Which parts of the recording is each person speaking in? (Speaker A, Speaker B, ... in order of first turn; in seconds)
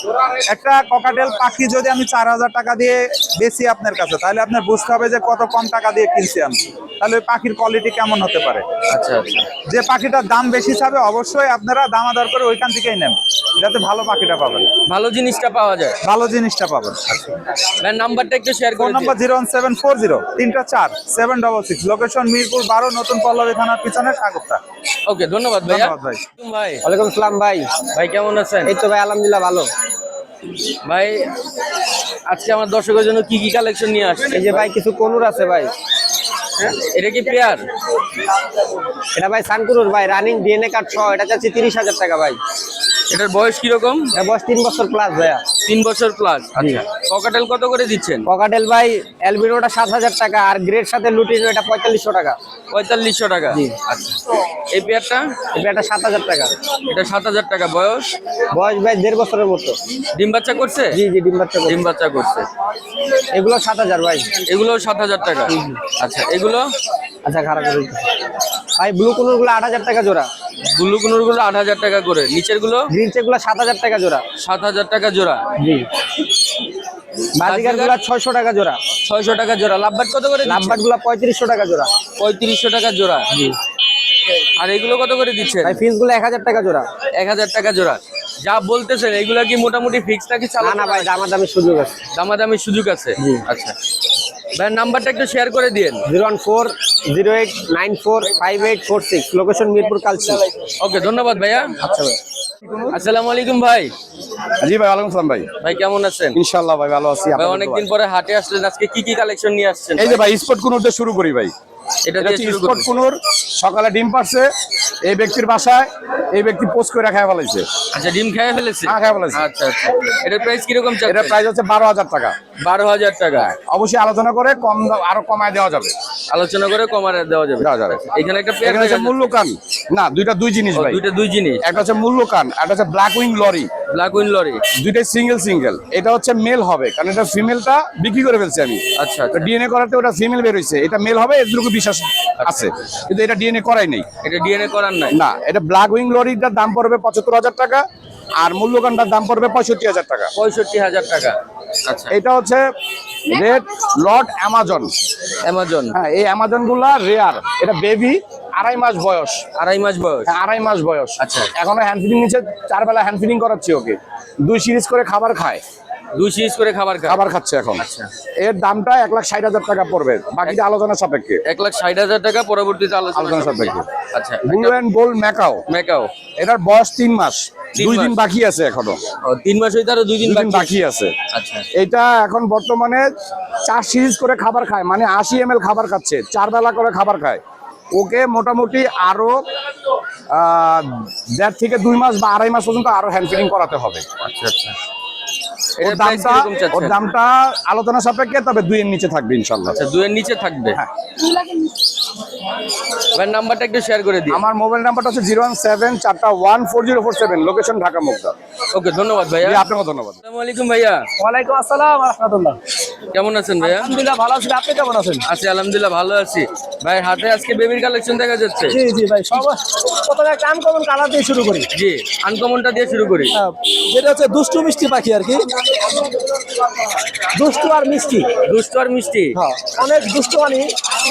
Speaker A: 0.5-8.7, 9.7-14.7, 16.0-17.0, 18.8-24.6, 25.7-26.2
Speaker B: 8.9-9.5, 14.9-16.0, 17.1-19.2, 25.1-26.9, 27.9-28.8, 30.8-31.3, 32.3-34.7, 36.6-37.7, 43.1-44.1, 45.6-48.3, 52.7-54.2, 54.7-55.3, 56.9-58.1, 60.1-61.0, 61.6-62.5, 64.5-66.7, 70.7-72.9, 74.4-75.4, 77.4-78.0, 79.0-80.8, 82.2-83.3, 84.6-85.8, 87.2-91.2, 92.1-93.7, 94.6-96.0, 100.8-101.8, 102.8-103.9, 105.6-106.4, 107.3-110.2, 112.0-112.9, 117.9-121.4, 122.6-123.5, 126.3-129.3, 130.8-131.8, 133.9-134.6, 139.0-139.5, 142.4-142.8, 144.2-145.2, 150.3-151.4, 151.9-152.1, 155.4-156.0, 159.6-160.3, 161.2-161.5, 166.1-167.2, 167.8-168.1, 171.5-174.9, 175.7-176.1, 177.8-178.2, 179.2-180.8, 181.3-181.6, 194.2-194.8, 195.8-197.0, 199.7-200.8, 203.1-204.4, 208.7-209.6, 210.2-211.1, 213.1-213.9, 215.2-218.8, 221.7-223.4, 228.4-230.1
Speaker C: 26.8-27.7, 28.7-29.7, 34.3-35.7, 39.1-42.4, 44.1-45.4, 48.3-52.4, 55.5-56.5, 58.5-59.8, 60.9-61.8, 63.3-64.3, 67.3-68.0, 68.8-70.3, 72.9-74.3, 75.6-75.9, 77.4-78.8, 80.5-81.9, 85.6-86.9, 90.6-92.0, 96.1-100.5
Speaker D: 104.6-105.5, 106.3-107.9, 110.0-111.5, 112.2-114.5, 115.0-117.7, 118.8-119.4, 121.1-122.4, 123.4-126.0, 127.6-128.0, 128.6-131.0, 131.6-133.7, 134.8-144.1, 145.1-147.8, 148.4-150.3, 152.1-152.6, 153.3-154.9, 155.9-159.4, 160.3-165.6, 167.1-167.8, 168.4-171.4, 173.2-173.9, 174.4-175.6, 176.4-179.0, 180.2-181.1, 181.8-183.1, 183.7-187.4, 187.9-189.4, 190.3-194.1, 195.8-199.8, 204.3-208.3, 209.4-210.2
Speaker E: 211.2-212.6, 213.6-215.3, 218.7-221.7, 223.3-225.4, 227.3-228.3, 229.3-230.7